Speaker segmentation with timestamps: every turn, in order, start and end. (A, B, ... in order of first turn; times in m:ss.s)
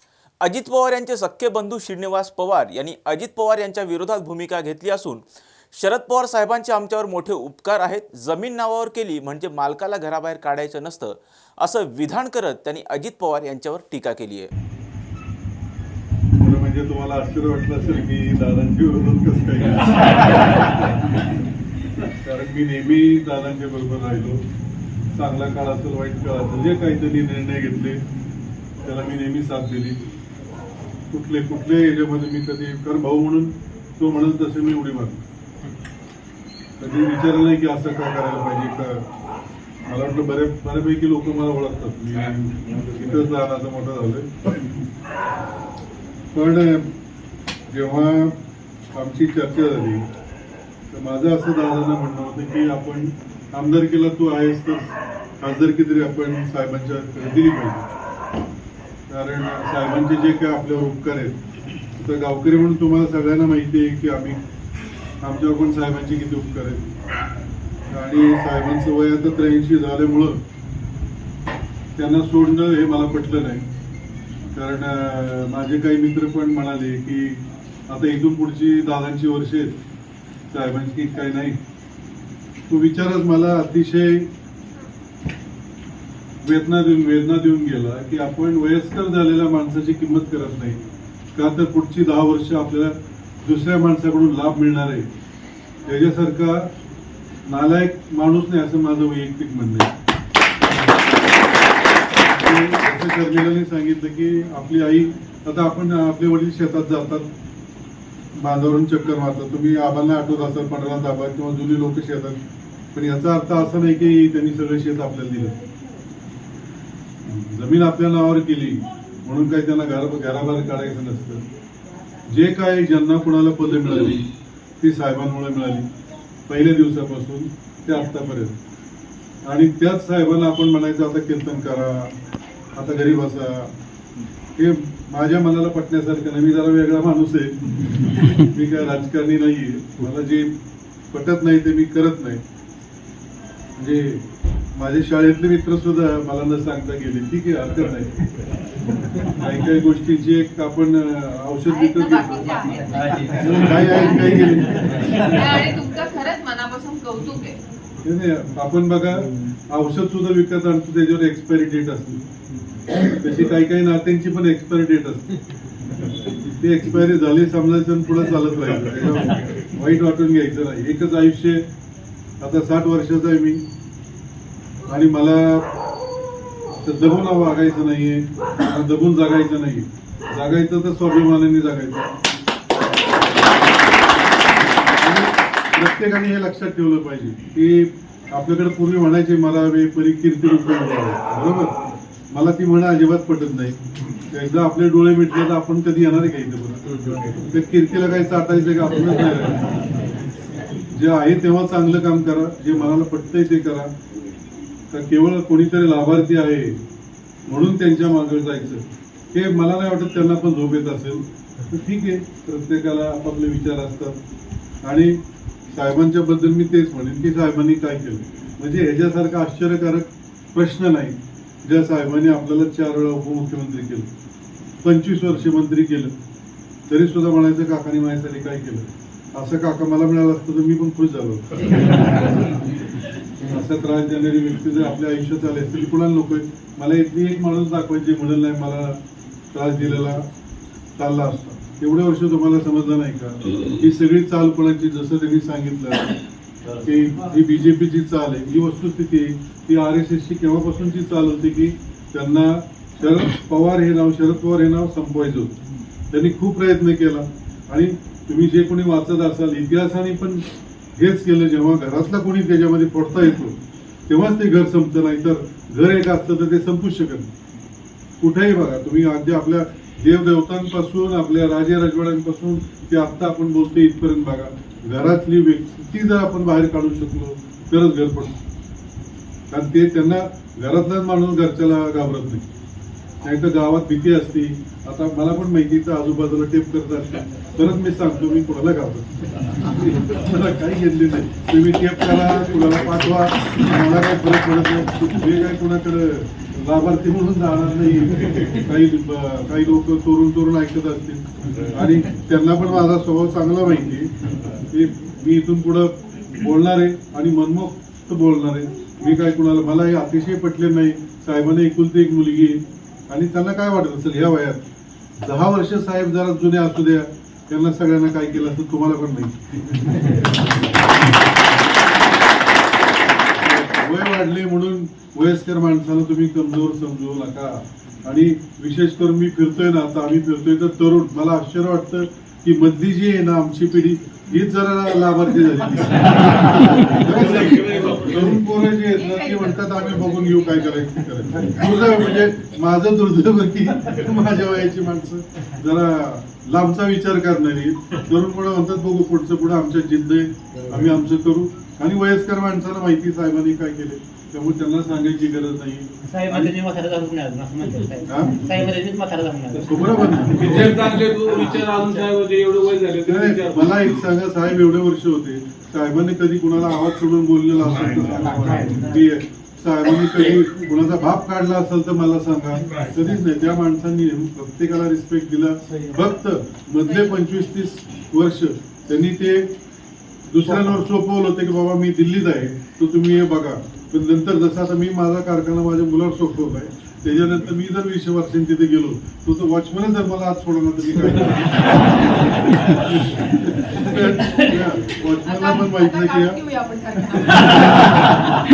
0:00.4-0:14.5 A
0:16.4-0:20.7 B
0:22.2-0:24.4 B
0:25.1-0:28.0 B
0:28.8-0:30.0 B
0:31.1-0:35.2 B
0:36.8-0:39.0 B
0:39.8-0:44.3 B
0:46.3-0:46.9 B
0:47.7-0:48.4 B
0:48.9-0:50.0 B
0:50.9-0:57.9 B
0:59.1-1:01.4 B
1:02.0-1:04.4 B
1:05.2-1:06.8 B
1:07.9-1:10.4 B
1:12.0-1:13.6 B
1:14.6-1:19.8 B
1:20.5-1:21.6 B
1:22.7-1:24.3 B
1:26.4-1:30.8 B
1:31.4-1:35.1 B
1:35.9-1:36.7 B
1:37.5-1:39.9 B
1:42.3-1:47.3 B
1:48.4-1:52.4 B
1:52.9-1:55.5 B
1:57.3-2:01.4 B
2:02.3-2:04.3 B
2:04.8-2:05.9 B
2:06.5-2:08.6 B
2:09.4-2:12.1 B
2:12.8-2:13.7 B
2:14.6-2:20.5 B
2:21.1-2:22.4 B
2:23.8-2:24.2 B
2:24.8-2:28.1 B
2:29.2-2:35.6 B
2:31.7-2:34.5 C
2:32.9-2:33.6 D
2:35.1-2:37.6 C
2:38.0-2:42.2 B
2:43.0-2:45.4 B
2:46.4-2:51.6 B
2:52.4-2:53.6 B
2:54.9-2:55.7 B
2:56.8-3:02.1 B
3:05.0-3:11.8 B
3:12.3-3:13.8 B
3:14.3-3:19.7 B
3:20.9-3:23.9 B
3:24.9-3:26.8 B
3:27.5-3:28.8 B
3:29.3-3:34.2 B
3:34.8-3:35.2 B
3:35.7-3:44.1 B
3:44.8-3:46.1 B
3:46.9-3:52.3 B
3:53.4-3:59.0 B
3:59.5-4:00.2 B
4:01.0-4:06.2 B
4:06.7-4:15.6 B
4:16.1-4:20.4 B
4:21.0-4:23.6 B
4:24.1-4:27.3 B
4:28.2-4:38.4 B
4:39.5-4:42.5 B
4:43.2-4:49.1 B
4:49.6-5:14.6 B
5:15.2-5:19.3 B
5:23.4-5:56.6 B
5:37.0-5:38.4 E
5:38.9-5:40.8 C
5:56.1-6:02.0 D
5:58.0-5:58.5 B
5:59.5-6:00.9 B
6:00.4-6:03.9 E
6:03.0-6:19.5 B
6:07.7-6:08.1 E
6:08.2-6:08.9 D
6:16.8-6:17.2 C
6:20.3-6:36.4 B
6:35.2-6:38.3 C
6:37.4-6:38.2 B